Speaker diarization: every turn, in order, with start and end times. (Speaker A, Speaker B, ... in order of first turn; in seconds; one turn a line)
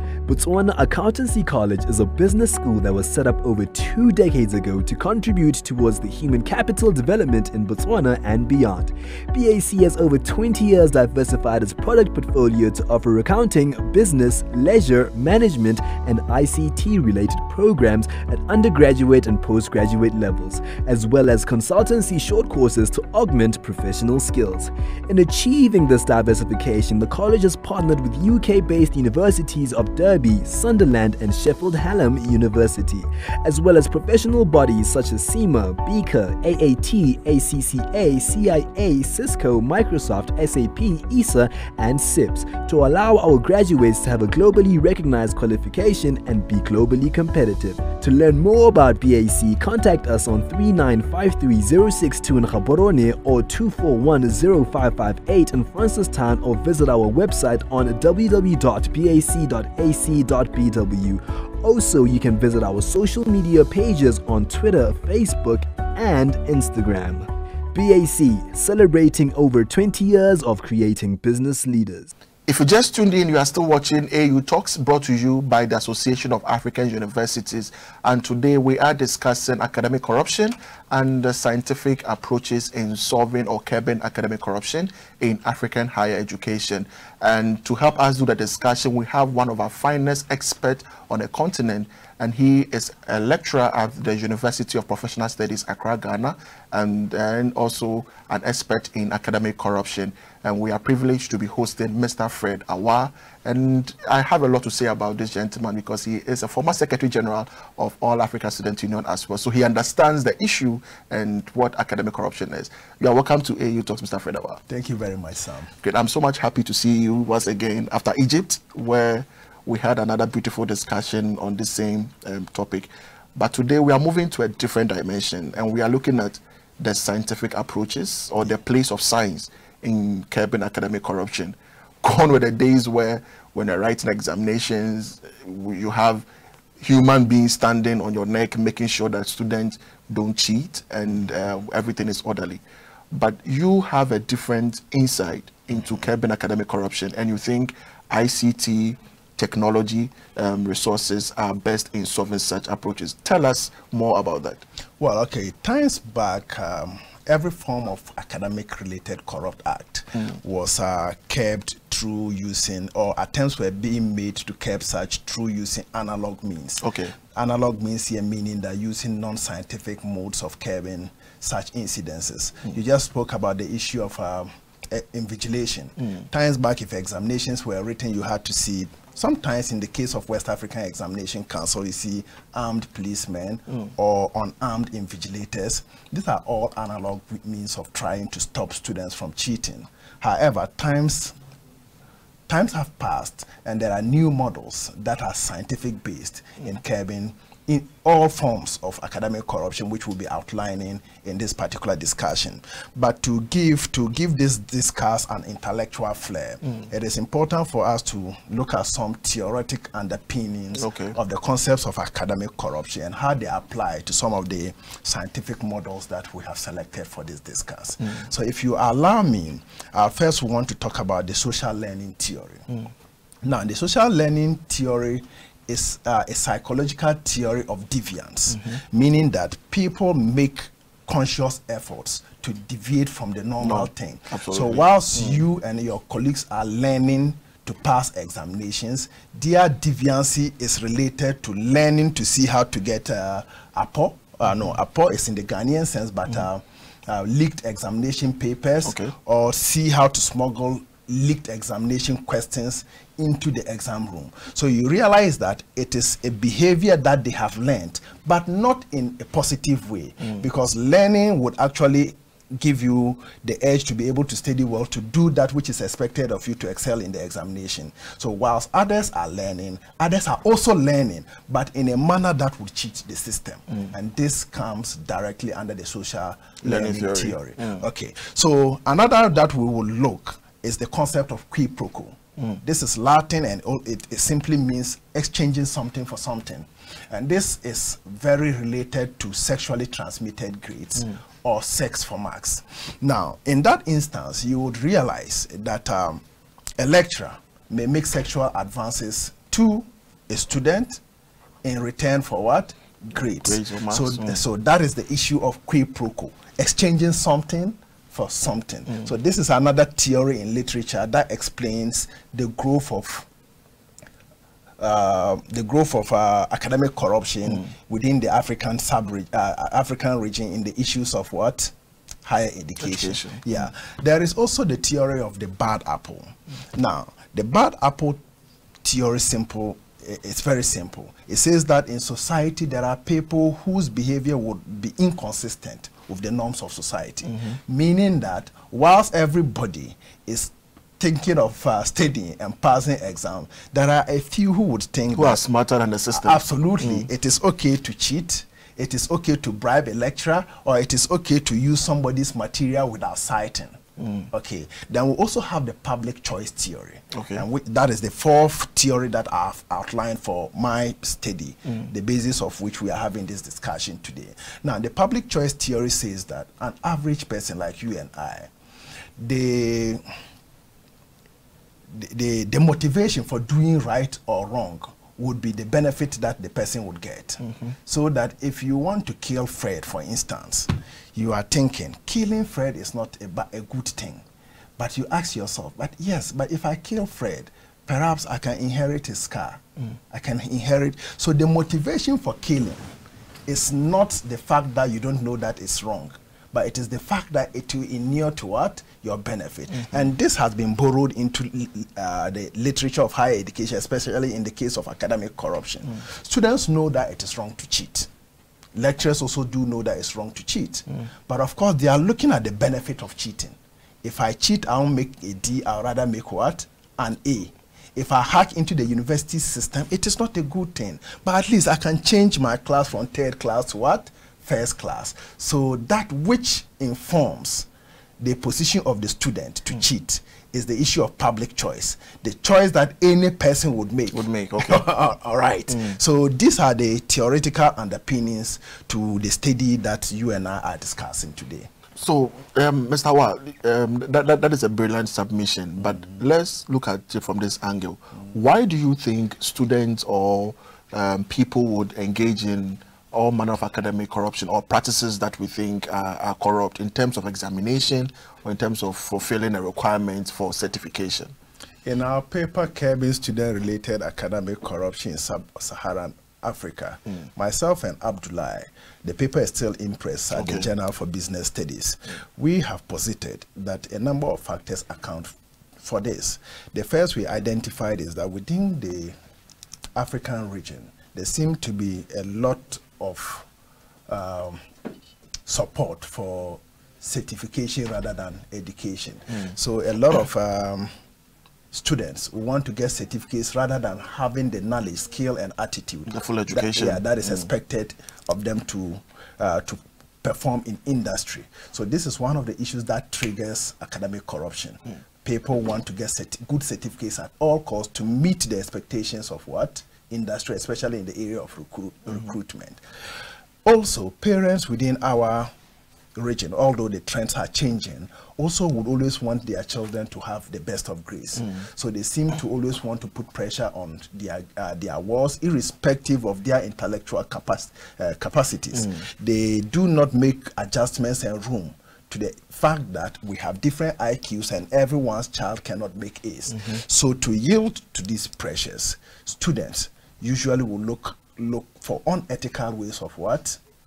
Speaker A: 0.2-72.1
Speaker B: 72.5-114.6
Speaker C: 114.7-115.7
Speaker B: 115.8-136.2
Speaker B: 136.8-154.6
Speaker C: 155.0-191.3
Speaker B: 166.8-167.1
Speaker C: 192.5-222.7
Speaker B: 210.8-211.2
Speaker C: 223.4-296.2
Speaker B: 228.5-228.8
Speaker B: 233.6-235.4
Speaker B: 248.8-249.1
Speaker B: 276.6-277.8
Speaker C: 296.8-301.0
Speaker C: 301.6-313.3
Speaker B: 303.4-304.4
Speaker C: 314.8-321.7
Speaker C: 322.2-328.2
Speaker B: 322.8-323.6
Speaker C: 328.8-345.4
Speaker B: 345.1-347.1
Speaker C: 346.1-353.8
Speaker B: 354.0-354.3
Speaker C: 354.3-368.5
Speaker B: 357.1-357.4
Speaker C: 369.2-370.0
Speaker C: 371.9-384.2
Speaker B: 377.4-377.7
Speaker C: 384.8-392.9
Speaker C: 393.5-408.1
Speaker C: 408.7-427.7
Speaker C: 428.2-441.7
Speaker B: 434.1-434.9
Speaker B: 435.7-436.0
Speaker B: 441.9-461.3
Speaker C: 461.8-479.1
Speaker B: 470.3-470.7
Speaker C: 479.9-483.5
Speaker C: 484.1-484.6
Speaker C: 485.4-490.9
Speaker C: 491.7-512.8
Speaker B: 496.1-497.5
Speaker C: 513.6-515.5
Speaker C: 516.1-543.6
Speaker B: 528.7-529.0
Speaker B: 536.5-536.8